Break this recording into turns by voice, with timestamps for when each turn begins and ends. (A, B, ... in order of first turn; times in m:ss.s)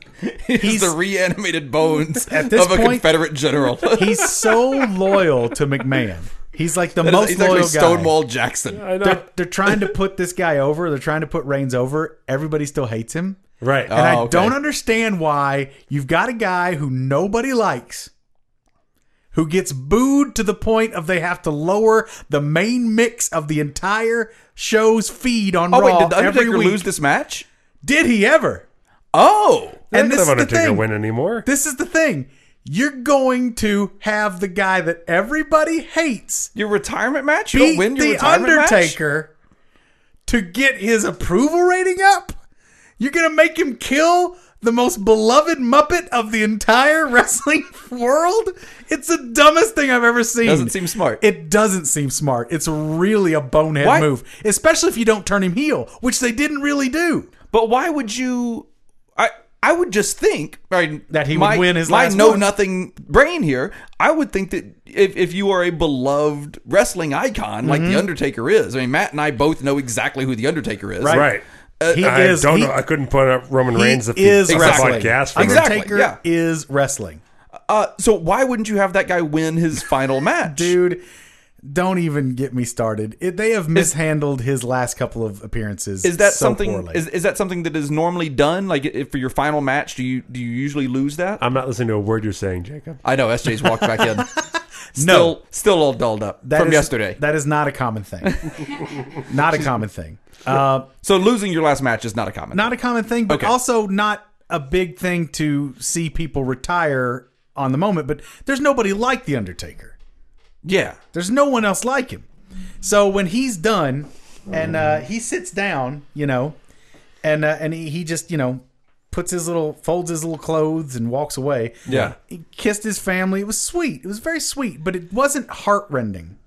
0:00.2-0:04.9 A
0:00.6-0:01.0 B
0:02.2-0:03.1 B
0:03.9-0:08.2 B
0:07.0-0:08.9 A
0:08.7-0:09.3 C
0:09.0-0:13.4 B
0:13.6-0:14.0 C
0:13.9-0:14.6 A
0:13.9-0:18.1 B
0:19.3-0:26.9 B
0:25.7-0:27.5 A
0:27.8-0:28.6 B
0:29.1-0:29.8 A
0:29.9-0:30.9 B
0:29.9-0:31.5 C
0:31.4-0:36.5 B
0:36.6-0:39.0 A
0:37.5-0:39.3 B
0:40.3-0:42.4 B
0:43.0-0:57.3 B
0:50.4-0:51.2 A
0:53.8-0:54.1 A
0:57.5-0:58.7 A
0:59.2-1:12.1 A
1:01.1-1:02.5 B
1:07.6-1:08.1 B
1:11.0-1:11.3 B
1:11.1-1:15.7 C
1:11.9-1:12.8 B
1:13.7-1:17.2 B
1:14.5-1:16.2 A
1:17.7-1:20.7 A
1:20.4-1:21.0 B
1:21.6-1:27.0 B
1:26.0-1:31.4 A
1:31.4-1:33.0 C
1:33.0-1:34.3 A
1:34.0-1:34.3 B
1:35.0-1:35.4 B
1:35.0-1:37.2 A
1:36.4-1:38.4 B
1:38.2-1:38.7 A
1:39.2-1:40.9 B
1:41.0-1:42.7 A
1:42.5-1:50.0 B
1:43.3-1:43.5 A
1:50.6-1:51.0 A
1:51.1-1:52.3 B
1:52.8-1:56.6 B
1:57.2-2:06.4 B
2:01.9-2:02.2 A